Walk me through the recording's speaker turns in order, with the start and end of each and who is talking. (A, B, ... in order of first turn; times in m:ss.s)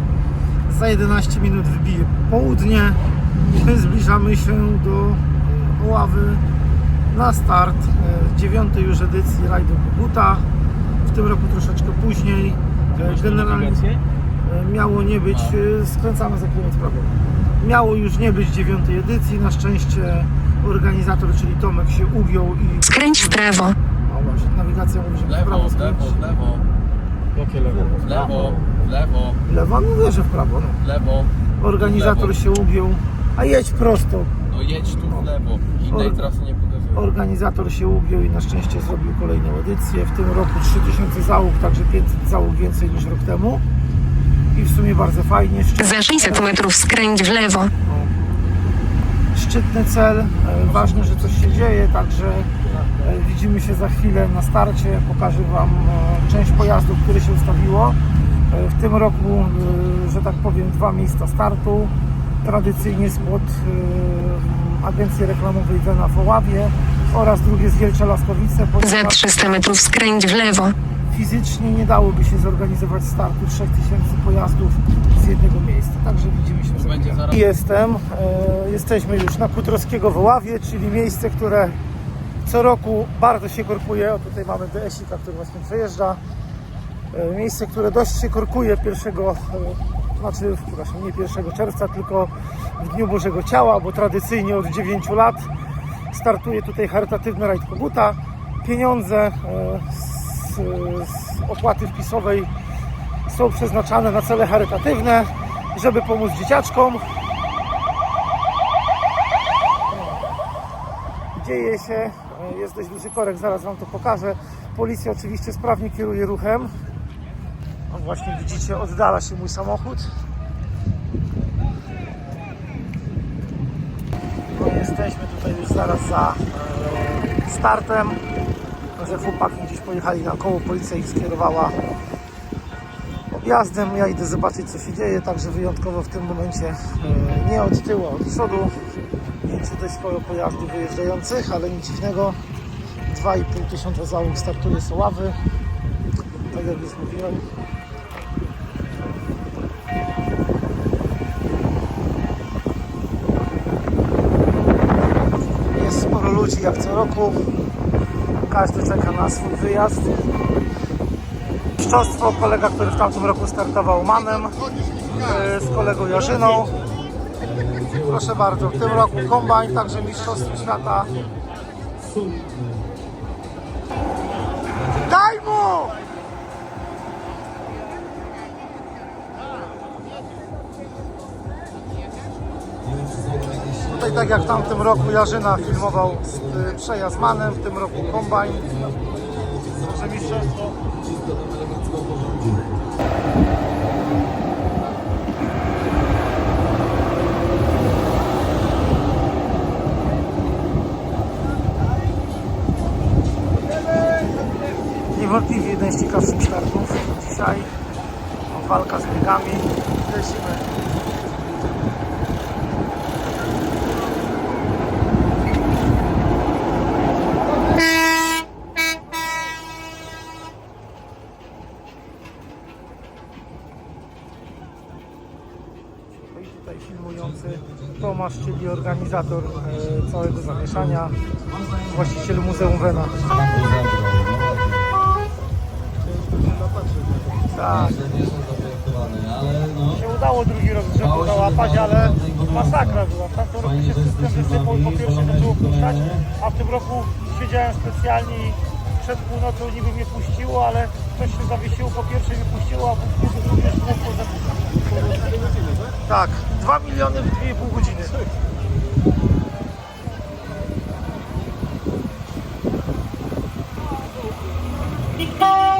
0:00.6-0:06.4 A
0:07.1-0:10.5 A
0:11.0-0:23.4 A
0:22.9-0:23.8 B
0:23.9-0:26.2 A
0:25.4-0:26.6 C
0:27.6-0:28.6 A
0:27.9-0:29.4 C
0:29.4-0:30.8 A
0:30.8-0:31.3 C
0:31.6-0:34.4 A
0:34.5-0:36.9 C
0:35.8-0:36.3 A
0:36.9-0:43.6 A
0:44.5-0:46.6 A
0:46.0-0:47.7 B
0:49.3-1:09.6 A
1:09.4-1:10.7 B
1:11.1-1:21.8 A
1:22.4-1:26.2 A
1:27.1-1:35.5 A
1:36.1-1:42.5 A
1:43.2-1:47.1 A
1:51.3-1:56.7 A
1:57.9-2:00.1 A
2:04.5-2:08.2 A
2:09.0-2:11.8 A
2:13.3-2:18.7 A
2:19.4-2:22.4 A
2:23.0-2:25.4 A
2:26.5-2:27.4 A
2:35.7-2:37.4 A
2:38.5-2:40.2 A
2:41.8-2:46.8 A
2:47.6-2:48.0 C
2:47.9-2:51.1 A
2:52.2-2:52.6 C
2:55.0-2:55.9 A
3:03.0-3:05.8 C
3:03.9-3:08.8 A
3:09.1-3:10.5 C
3:09.8-3:10.6 A
3:11.3-3:12.6 C
3:25.1-3:27.7 A
3:28.5-3:30.6 A
3:46.3-3:51.2 A
3:51.8-3:53.3 A
3:53.2-3:54.9 C
3:57.5-3:58.0 A
3:57.9-3:59.9 C
3:59.9-4:14.7 A
4:01.2-4:02.8 C
4:03.8-4:06.1 C
4:15.9-4:18.2 A